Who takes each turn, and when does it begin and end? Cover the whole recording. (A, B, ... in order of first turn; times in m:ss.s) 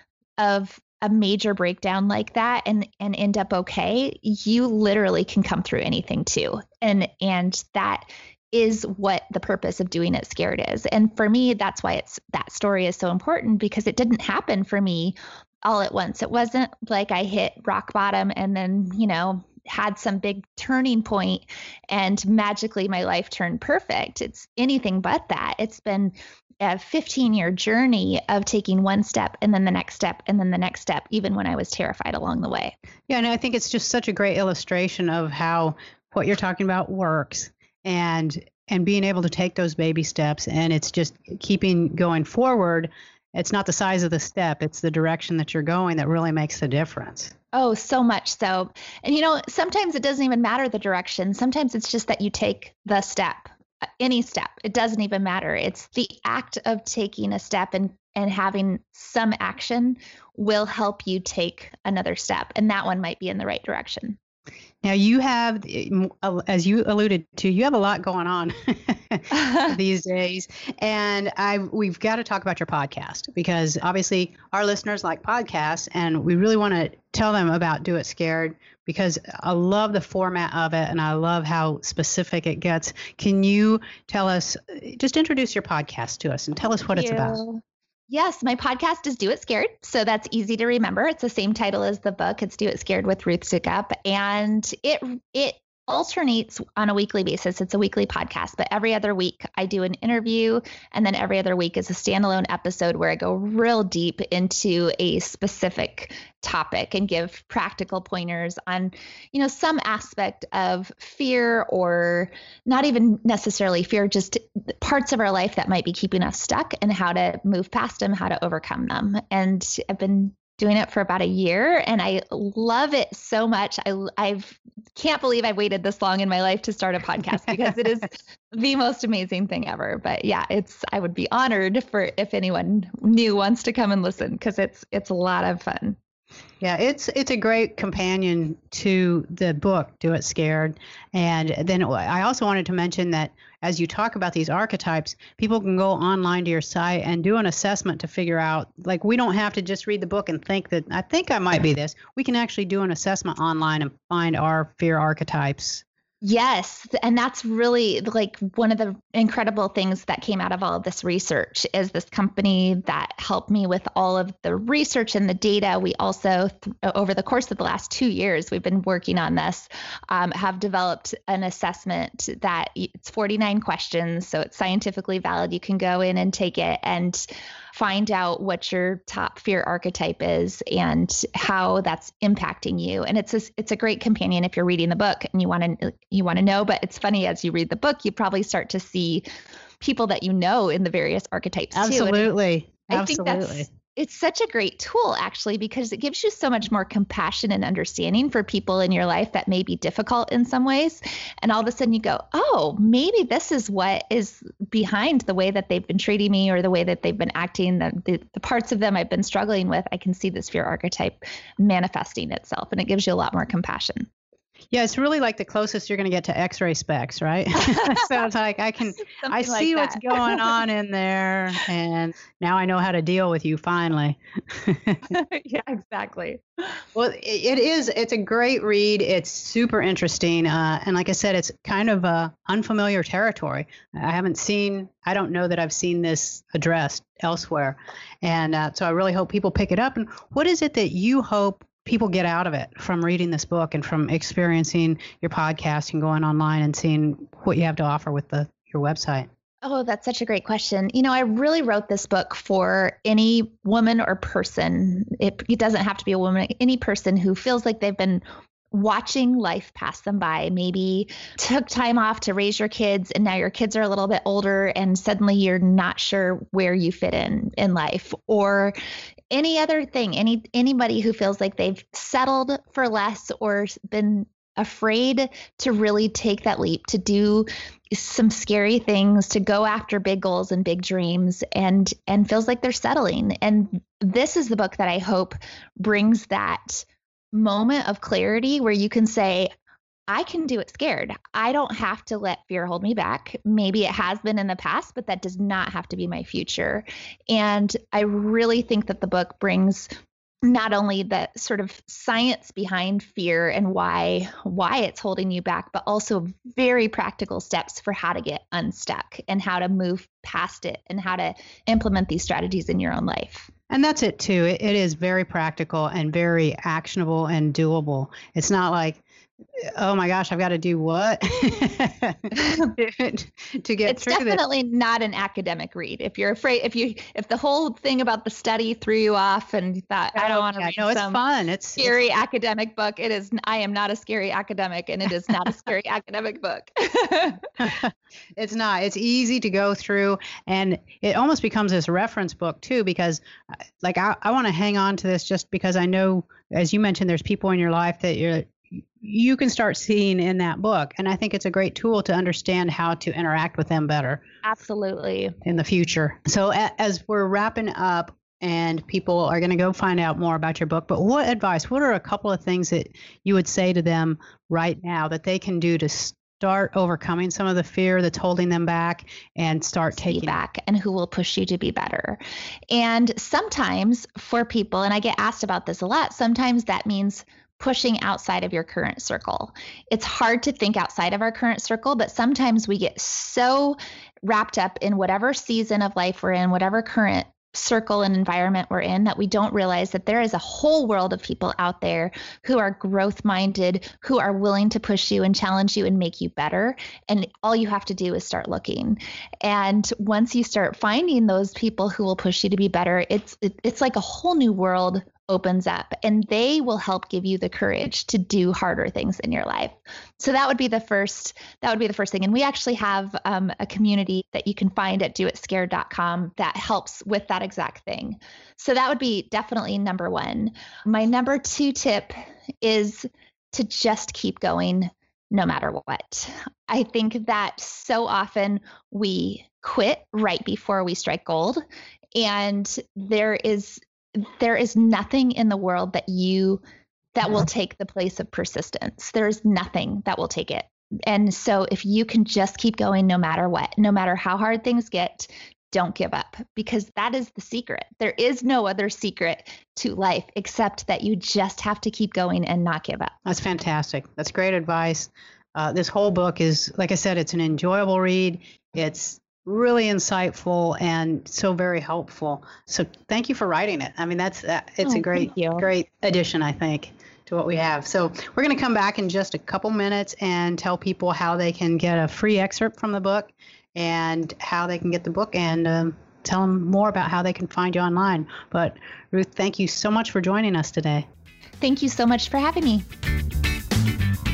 0:00.4-0:32.7 A
0:33.1-0:47.3 B
0:47.5-1:04.2 A
1:04.8-1:27.4 B
1:09.4-1:09.7 A
1:26.9-2:16.0 A
2:16.6-2:35.8 B
2:36.2-3:09.2 A
3:09.8-3:12.3 A
3:11.7-3:13.7 B
3:12.9-3:34.1 A
3:34.7-3:45.1 B
3:37.6-3:38.2 A
3:39.0-3:40.6 A
3:45.1-3:46.8 A
3:46.9-4:09.3 B
4:09.6-4:28.7 A
4:29.3-4:49.5 A
4:50.1-4:59.9 A
5:00.4-5:13.5 A
5:13.7-5:19.0 B
5:19.6-5:24.4 B
5:22.3-5:22.7 A
5:23.9-5:31.2 A
5:30.1-5:31.9 B
5:31.8-5:37.7 A
5:37.6-5:43.2 B
5:43.8-5:54.2 B
5:54.4-5:55.4 A
5:55.4-6:10.4 B
6:09.9-6:12.2 A
6:12.7-7:11.6 A
7:12.1-7:16.6 A
7:17.1-7:33.1 A
7:33.2-8:01.0 B
7:44.8-7:45.6 A
8:01.6-8:02.8 A